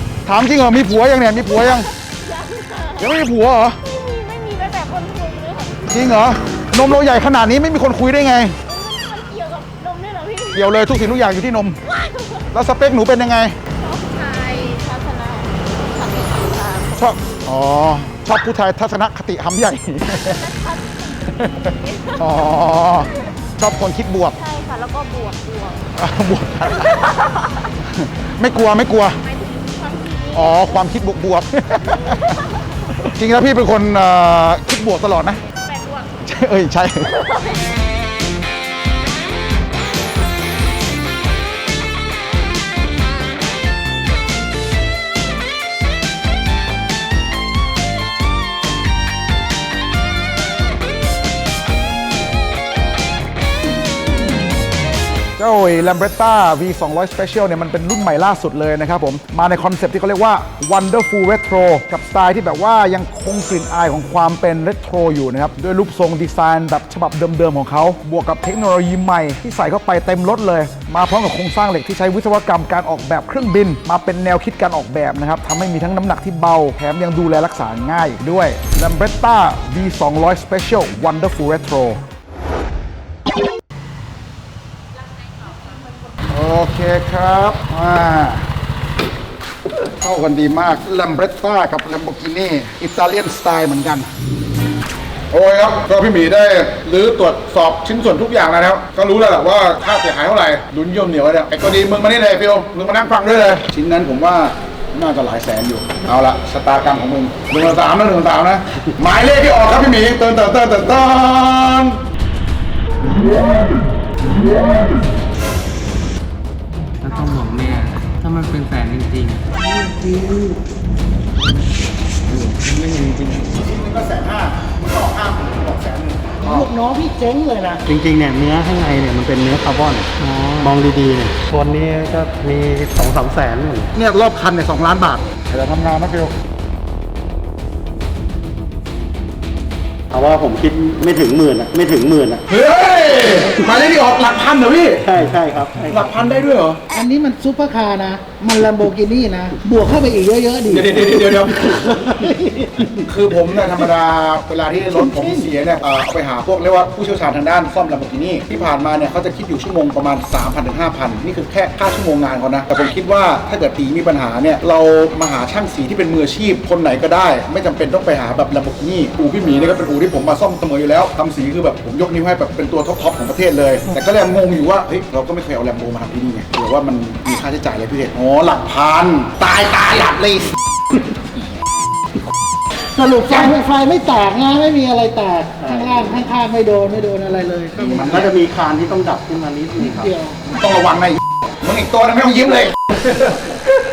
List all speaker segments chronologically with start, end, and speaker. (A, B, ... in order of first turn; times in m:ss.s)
0:00.3-0:01.9 A
0:01.7-0:03.2 B
0:03.0-0:03.8 A
0:03.8-0:06.0 B
0:05.9-0:08.6 A
0:08.6-0:10.7 B
0:10.5-0:11.8 A
0:11.8-0:12.5 B
0:12.5-0:13.6 A
0:13.8-0:17.5 B
0:17.0-0:20.4 A
0:20.1-0:23.1 B
0:21.4-0:24.4 A
0:24.3-0:25.9 B
0:26.0-0:27.2 A
0:26.7-0:27.6 B
0:27.8-0:29.2 A
0:28.7-0:30.9 B
0:30.3-0:32.4 A
0:31.9-0:33.1 B
0:33.0-0:35.4 A
0:35.6-0:36.1 B
0:36.2-0:37.1 A
0:37.0-0:37.7 B
0:55.4-1:22.0 A
1:25.4-1:26.2 B
1:26.3-1:28.5 A
1:29.7-1:34.1 A
1:35.3-1:52.0 A
1:57.0-1:59.5 C
1:59.5-2:00.6 D
2:02.3-2:03.6 C
2:03.6-2:06.7 A
2:06.4-2:07.8 D
2:07.9-2:13.9 E
2:14.0-2:16.3 A
2:20.1-2:22.4 E
2:22.5-2:25.1 A
2:25.0-2:26.1 E
2:25.9-2:26.8 A
2:26.9-2:32.9 D
2:30.7-2:31.6 A
2:33.0-3:00.5 A
2:35.0-2:35.5 D
3:03.0-3:08.2 D
3:05.6-3:06.2 E
3:07.8-3:08.3 A
3:07.8-3:10.1 E
3:09.8-3:10.4 D
3:10.5-3:13.5 A